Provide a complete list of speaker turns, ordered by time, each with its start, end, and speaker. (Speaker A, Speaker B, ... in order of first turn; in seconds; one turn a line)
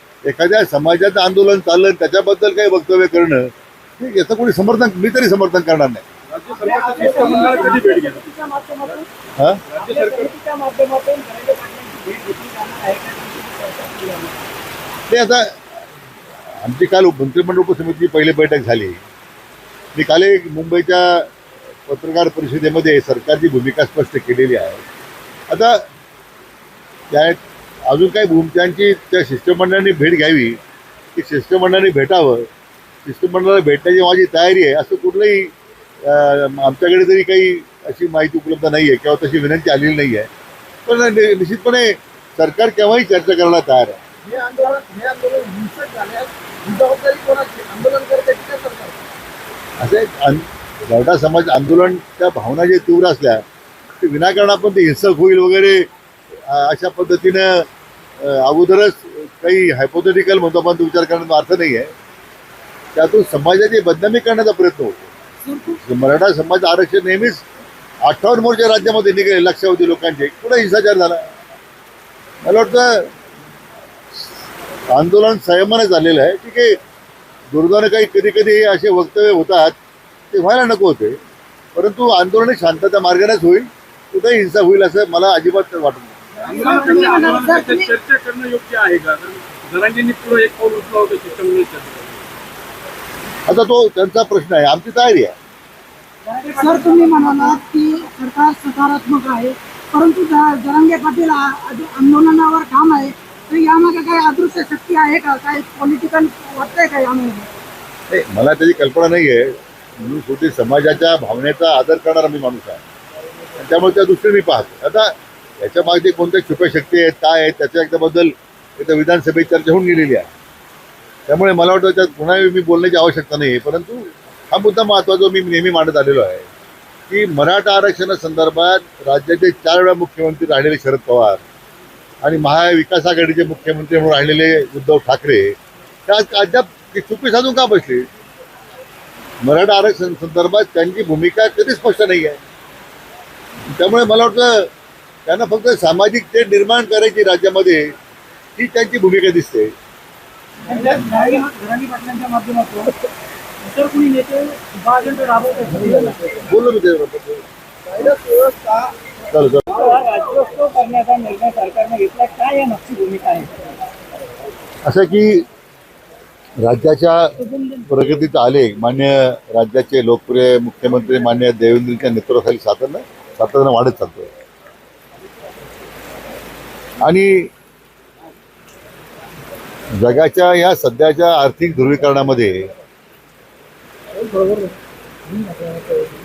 Speaker A: 0.2-6.0
Speaker B: 6.3-8.2
Speaker C: 6.6-9.1
Speaker B: 9.7-10.3
Speaker C: 9.8-14.4
Speaker A: 15.1-15.6
Speaker A: 16.6-19.0
Speaker A: 19.9-21.3
Speaker A: 21.9-24.8
Speaker A: 25.5-25.9
Speaker A: 27.1-30.6
Speaker A: 31.1-32.5
Speaker A: 33.0-35.5
Speaker A: 36.0-40.3
Speaker A: 40.9-44.0
Speaker D: 44.3-47.3
Speaker D: 48.0-48.9
Speaker A: 49.8-53.5
Speaker A: 54.0-55.9
Speaker A: 56.5-57.7
Speaker A: 58.2-61.9
Speaker A: 63.0-65.1
Speaker E: 65.4-65.8
Speaker A: 65.8-67.5
Speaker A: 68.0-71.3
Speaker A: 72.4-73.1
Speaker A: 74.9-76.8
Speaker A: 77.5-79.8
Speaker A: 80.3-81.2
Speaker A: 81.8-86.2
Speaker B: 86.5-92.2
Speaker E: 86.6-87.9
Speaker A: 93.5-95.4
Speaker C: 96.3-97.6
Speaker E: 96.5-107.5
Speaker A: 108.1-112.8
Speaker A: 113.6-120.3
Speaker A: 121.3-126.5
Speaker A: 127.1-131.4
Speaker A: 132.2-138.1
Speaker A: 139.4-142.4
Speaker A: 143.7-144.7
Speaker A: 145.3-147.9
Speaker A: 148.6-149.7
Speaker C: 150.7-153.0
Speaker C: 153.6-156.4
Speaker A: 156.4-157.4
Speaker A: 159.3-159.8
Speaker C: 159.7-163.6
Speaker A: 164.8-165.4
Speaker A: 166.6-174.3
Speaker C: 167.4-167.8
Speaker A: 177.0-177.5
Speaker A: 180.0-182.7
Speaker C: 184.2-184.7
Speaker C: 185.3-186.2